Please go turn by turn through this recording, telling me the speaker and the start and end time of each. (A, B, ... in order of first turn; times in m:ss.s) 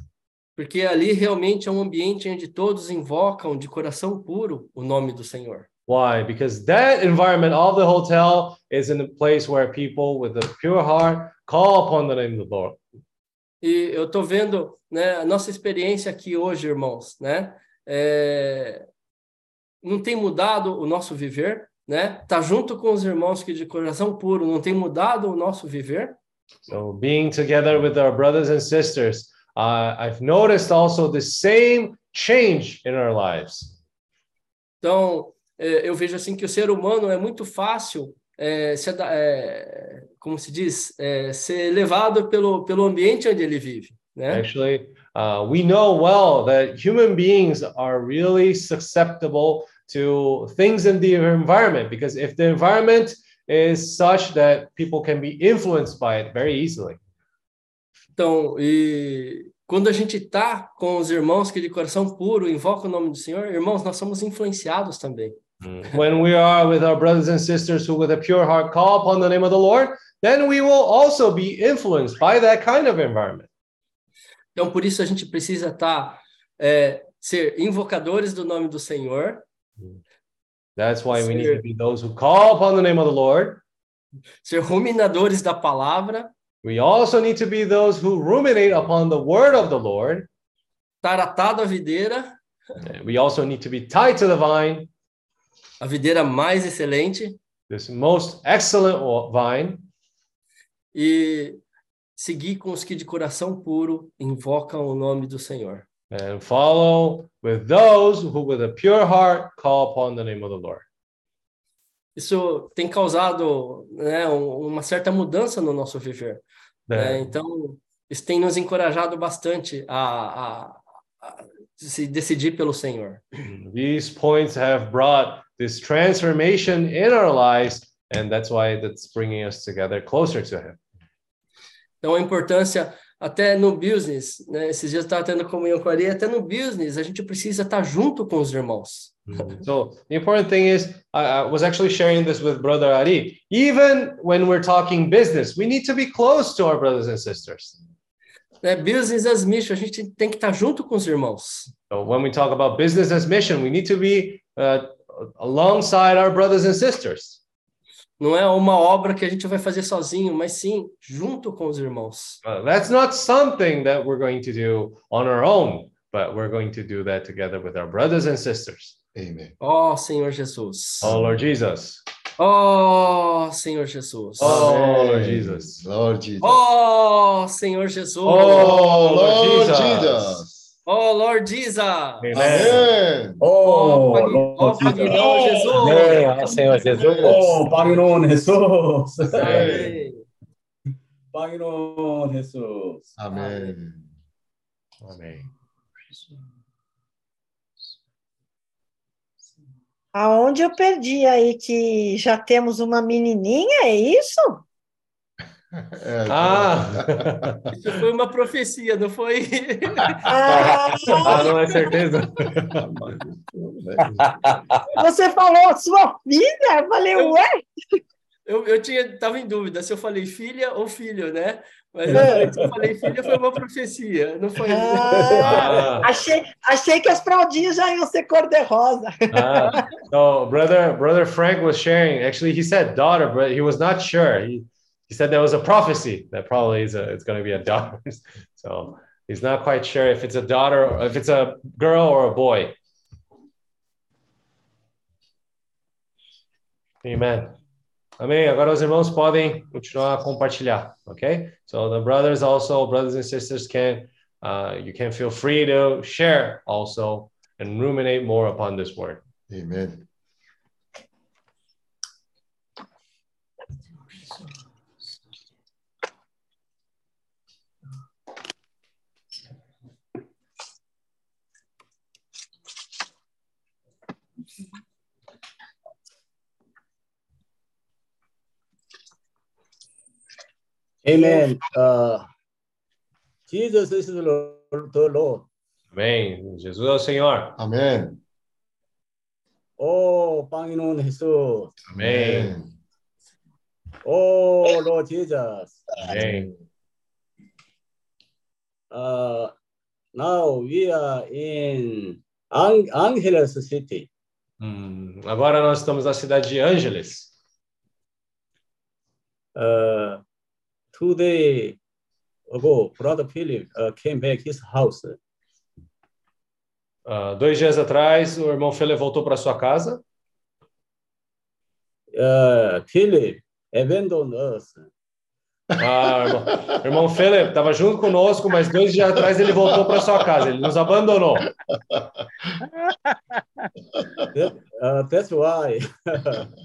0:00.6-0:05.7 A
0:05.9-0:12.8 B
0:13.6-0:18.8 A
0:19.8-0:26.2 A
0:26.7-0:33.7 B
0:34.8-0:44.5 A
0:44.3-0:57.0 B
0:58.2-1:05.4 A
1:05.6-1:13.5 B
1:14.6-1:19.4 A
1:20.8-1:23.6 B
1:21.1-1:21.6 A
1:24.4-1:26.3 A
1:26.6-1:30.3 B
1:31.0-1:32.4 A
1:32.8-1:34.9 B
1:35.8-1:37.4 A
1:37.7-1:39.9 B
1:40.9-1:41.6 A
1:42.2-1:45.9 A
1:46.1-1:50.8 B
1:52.2-1:56.4 A
1:56.9-1:57.3 B
1:56.9-2:03.3 A
2:03.5-2:10.8 B
2:12.0-2:19.2 A
2:19.3-2:27.8 B
2:28.6-2:31.7 A
2:31.9-2:37.4 B
2:38.2-2:42.4 A
2:42.4-2:49.0 B
2:49.2-2:49.5 C
2:49.6-2:51.1 A
2:51.0-2:52.0 B
2:51.0-2:51.4 C
2:52.4-2:54.7 A
2:54.4-2:55.8 B
2:54.4-2:56.6 C
2:56.4-2:58.8 A
2:58.3-3:00.4 B
2:58.3-3:00.7 C
3:00.9-3:02.8 A
3:02.2-3:02.9 B
3:02.4-3:03.4 C
3:02.4-3:02.7 D
3:03.4-3:05.3 D
3:03.6-3:06.4 A
3:05.1-3:07.4 B
3:05.8-3:07.6 C
3:05.8-3:06.1 D
3:07.2-3:09.4 D
3:09.3-3:09.9 B
3:09.3-3:10.2 A
3:09.5-3:09.9 C
3:11.3-3:13.1 D
3:13.2-3:14.1 C
3:15.0-3:15.5 B
3:20.1-3:24.6 E
3:25.8-3:27.7 C
3:26.3-3:27.6 B
3:27.8-3:30.2 A
3:30.3-3:31.9 E
3:31.1-3:32.8 B
3:32.6-3:34.3 C
3:34.9-3:37.7 E
3:38.5-3:45.9 A
3:42.1-3:42.6 E
3:42.2-3:42.6 D
3:44.6-3:49.8 E
3:45.1-3:45.4 D
3:45.4-3:46.1 B
3:49.3-4:02.8 B
4:07.0-4:07.6 B
4:08.2-4:19.2 B
4:19.5-4:20.1 C
4:41.0-4:42.3 D
4:41.2-4:41.5 E
4:43.5-4:45.5 D
4:45.9-4:47.6 B
4:47.6-4:48.2 C
4:49.8-4:51.8 D
4:51.9-4:52.8 C
4:52.0-4:52.6 B
4:54.0-4:55.8 D
4:56.0-4:56.6 C
4:56.0-4:56.5 B
4:58.9-4:59.5 D
5:00.1-5:04.1 D
5:04.6-5:07.3 B
5:09.6-5:10.2 D
5:10.9-5:11.8 D
5:12.5-5:15.2 D
5:17.1-5:20.0 B
5:22.1-5:24.9 D
5:25.8-5:31.5 B
5:34.3-5:36.4 D